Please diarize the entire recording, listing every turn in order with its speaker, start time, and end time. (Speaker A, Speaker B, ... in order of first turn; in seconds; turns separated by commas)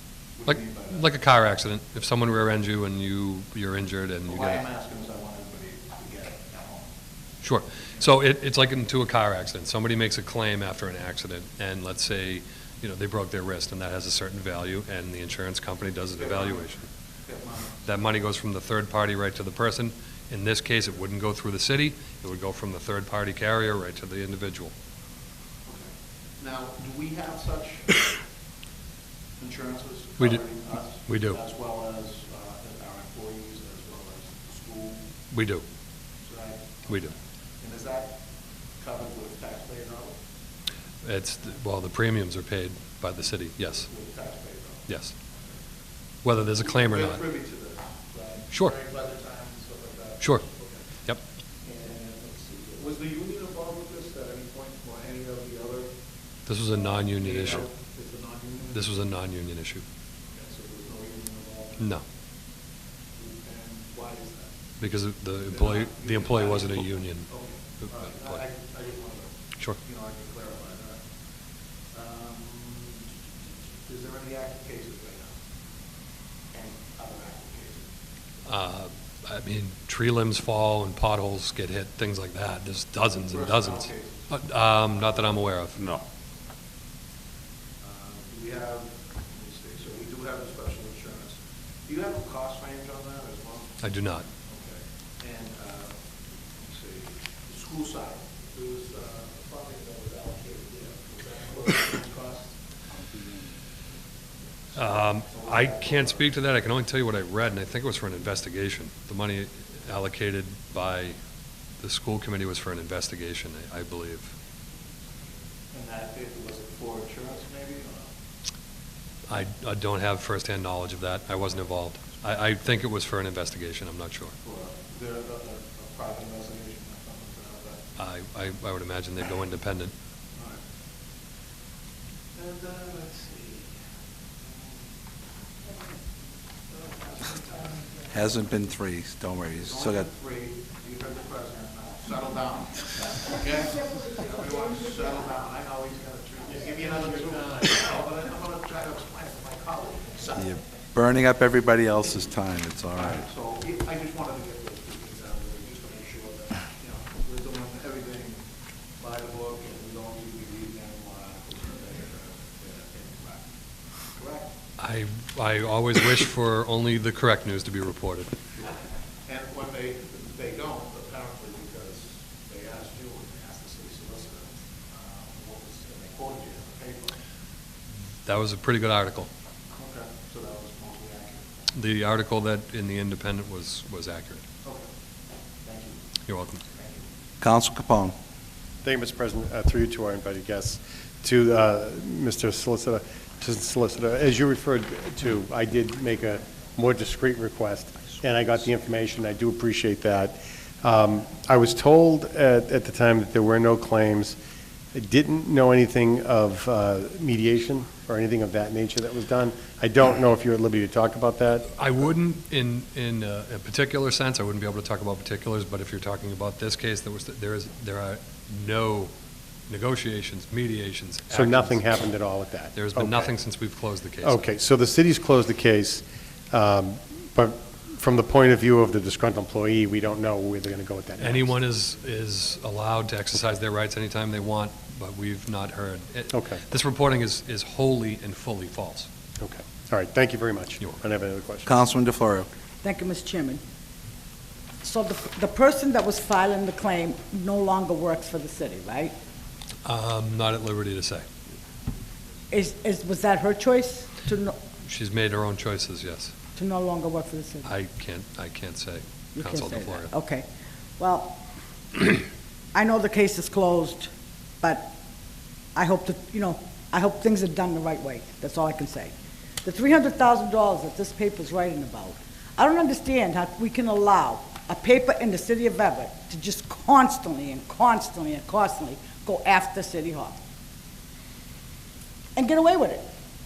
Speaker A: 0.3-1.1, Speaker B: 0.5-4.7, Speaker A: 4.3-6.9, Speaker B: 7.4-16.9, Speaker A: 16.2-16.7, Speaker A: 17.3-17.9, Speaker B: 17.9-24.7, Speaker A: 25.7-28.0, Speaker A: 29.4-35.1, Speaker B: 30.2-31.4, Speaker B: 35.3-35.6, Speaker A: 36.2-38.2, Speaker A: 38.8-40.2, Speaker B: 41.0-43.9, Speaker A: 43.7-44.9, Speaker B: 44.9-45.1, Speaker B: 46.2-47.2, Speaker A: 46.6-50.9, Speaker B: 50.2-51.2, Speaker A: 51.6-55.9, Speaker B: 56.5-57.7, Speaker A: 56.9-58.9, Speaker B: 58.7-59.8, Speaker A: 60.3-61.9, Speaker A: 63.1-64.5, Speaker B: 64.8-68.4, Speaker A: 65.5-71.1, Speaker A: 71.8-73.2, Speaker A: 73.8-75.4, Speaker A: 76.5-77.9, Speaker B: 78.5-85.8, Speaker A: 83.1-85.4, Speaker A: 87.8-102.6, Speaker B: 93.8-94.2, Speaker A: 104.8-106.4, Speaker B: 104.8-111.2, Speaker B: 111.8-114.3, Speaker A: 115.7-118.1, Speaker B: 119.3-124.3, Speaker A: 124.4-127.8, Speaker B: 128.0-129.9, Speaker A: 130.3-130.6, Speaker A: 132.3-133.7, Speaker A: 134.4-134.9, Speaker A: 136.7-137.9, Speaker C: 138.1-140.1, Speaker A: 139.6-150.6, Speaker C: 150.5-153.2, Speaker A: 152.9-158.4, Speaker A: 159.0-164.5, Speaker B: 164.8-168.4, Speaker A: 169.3-177.2, Speaker B: 178.2-179.3, Speaker A: 179.7-181.6, Speaker B: 181.7-184.4, Speaker A: 185.7-186.0, Speaker B: 186.3-186.6, Speaker A: 186.7-187.0, Speaker C: 187.4-188.2, Speaker D: 188.8-204.4, Speaker D: 204.9-211.7, Speaker B: 211.8-219.1, Speaker B: 219.7-221.9, Speaker D: 221.3-223.3, Speaker B: 222.7-224.5, Speaker D: 224.2-231.5, Speaker B: 231.2-239.1, Speaker D: 236.3-236.6, Speaker D: 239.4-241.7, Speaker C: 241.7-242.5, Speaker E: 242.8-243.6, Speaker E: 244.8-249.1, Speaker B: 249.8-251.2, Speaker E: 252.5-254.6, Speaker B: 254.8-256.3, Speaker E: 256.6-257.7, Speaker B: 257.6-260.1, Speaker E: 259.4-260.5, Speaker E: 261.0-261.4, Speaker E: 262.7-264.1, Speaker E: 264.6-264.9, Speaker E: 265.8-280.4, Speaker E: 282.4-283.1